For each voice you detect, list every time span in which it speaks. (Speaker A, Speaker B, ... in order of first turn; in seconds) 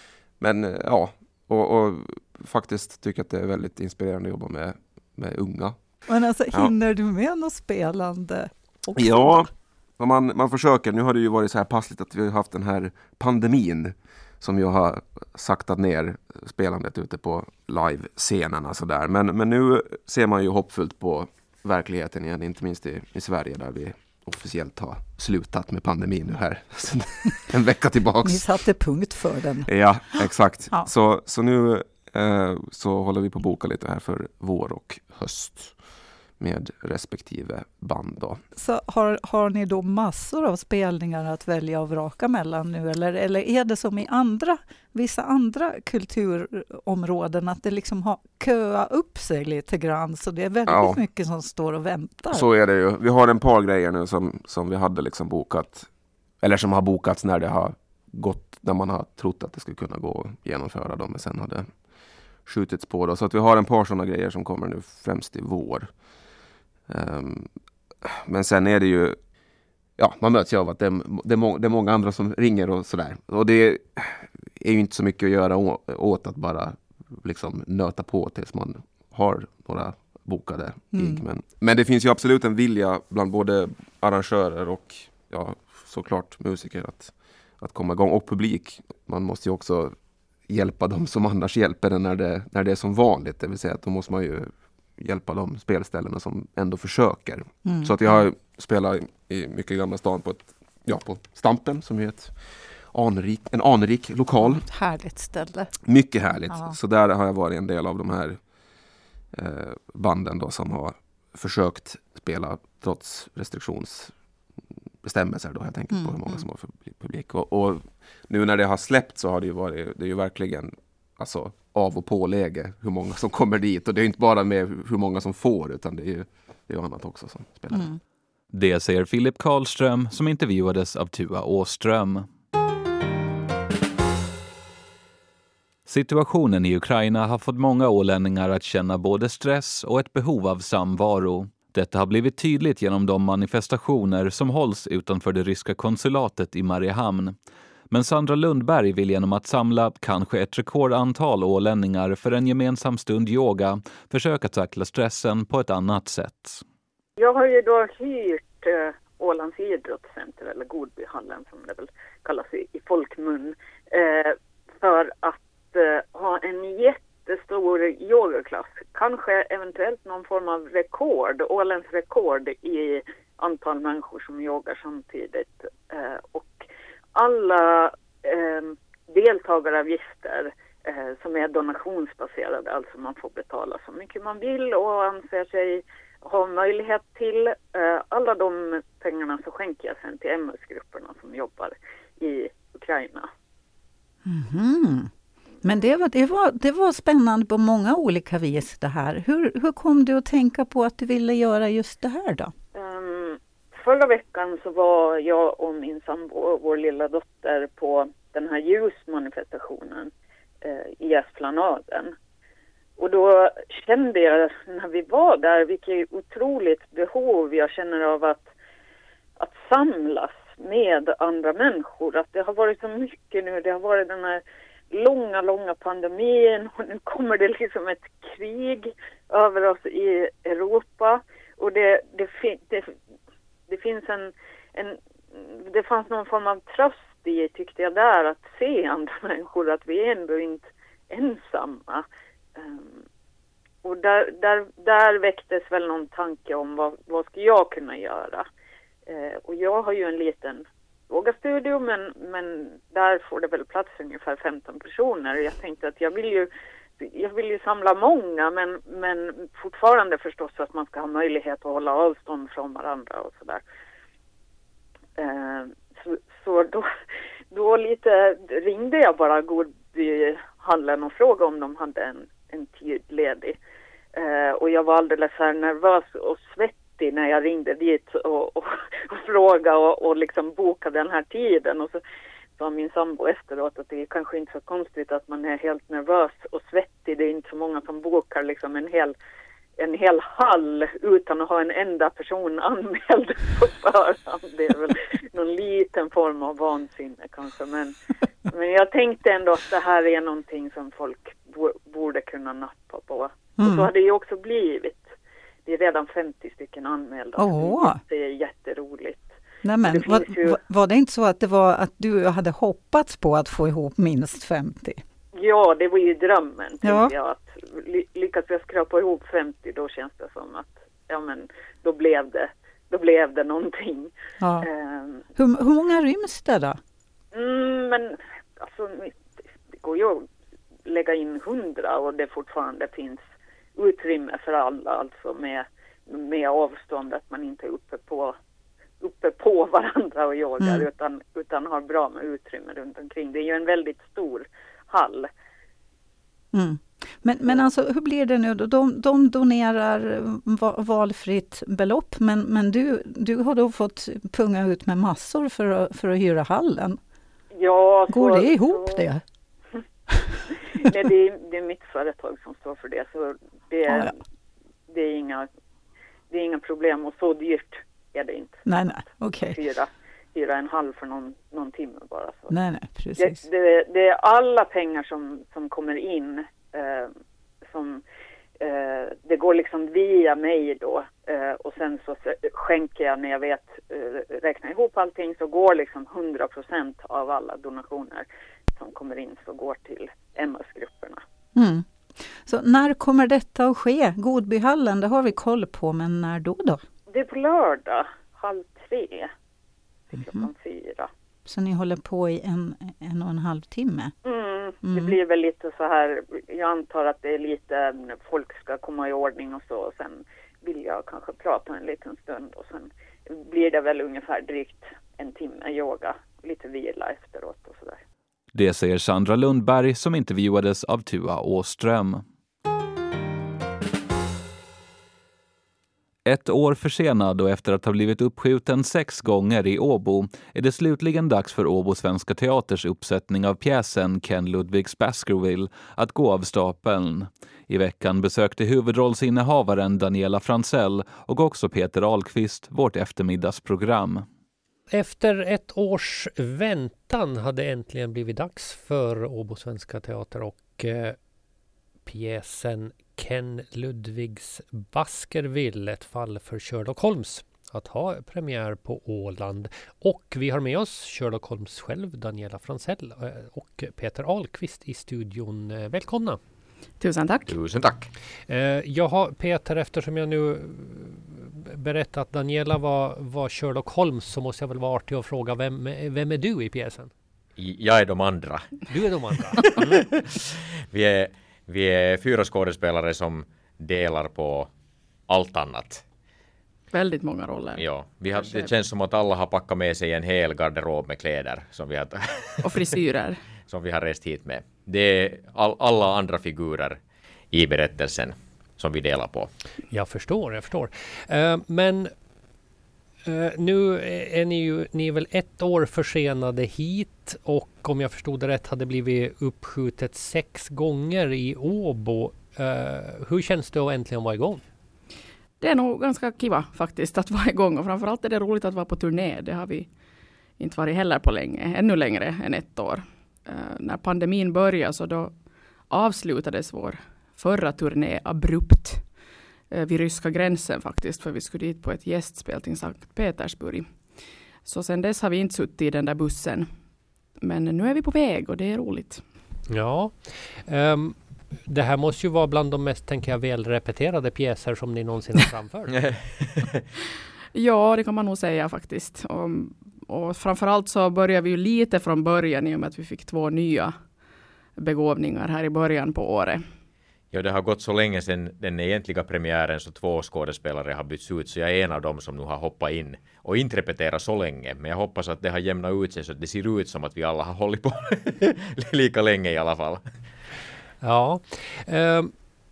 Speaker A: 0.4-6.0, 9.0-28.5, 29.7-35.8, 36.4-38.4, 50.7-51.0, 52.3-61.9, 62.4-65.9, 66.9-67.5, 68.0-69.2, 70.0-104.7, 105.8-108.5, 109.3-114.2, 115.0-127.9
Speaker B: 6.1-9.4, 28.2-29.7, 38.6-52.5, 80.9-81.2, 97.6-98.2, 104.4-105.7, 106.5-106.8, 115.9-116.4, 127.7-128.0, 194.2-195.1, 195.6-202.5, 303.6-303.9, 307.4-308.0, 309.6-315.0, 316.8-317.1, 324.4-324.7, 325.4-326.8, 340.6-340.9, 346.5-357.0, 358.1-359.2, 363.9-364.1, 368.7-369.6, 372.5-373.4, 391.6-396.8, 400.2-400.5, 401.5-404.1, 404.8-405.2
Speaker C: 128.5-132.3, 135.9-147.3, 147.9-156.6, 418.5-422.2, 426.3-444.3
Speaker D: 157.2-176.6, 177.2-193.3, 202.7-210.1, 210.6-212.1, 213.0-218.5, 219.4-232.9, 233.7-243.0, 243.8-248.5, 249.1-263.6, 265.2-266.9, 267.5-273.6, 274.1-282.0, 282.6-289.1, 289.8-297.9, 298.5-305.1, 305.7-309.3, 309.9-310.6, 315.4-325.2, 327.3-329.1, 329.8-330.3, 330.9-333.2, 333.8-338.4, 339.0-345.3, 357.5-359.1, 360.8-364.1, 364.9-365.5, 366.3-372.5, 373.2-377.1, 377.7-378.0, 378.6-391.2, 397.1-399.3, 400.1-401.1, 404.2-418.0
Speaker E: 444.9-451.2, 452.1-466.4, 468.5-477.1, 478.9-480.0, 499.9-502.1, 503.3-514.6, 539.7-545.9, 571.0-572.4
Speaker F: 467.0-467.6, 486.9-488.7, 492.6-493.4, 515.6-520.0, 520.6-539.3, 547.5-554.2, 554.8-556.7
Speaker G: 467.5-468.1, 477.6-480.3, 480.9-484.7, 485.3-486.0, 487.8-492.9, 493.7-497.0, 497.5-499.5, 545.9-546.8, 557.3-570.0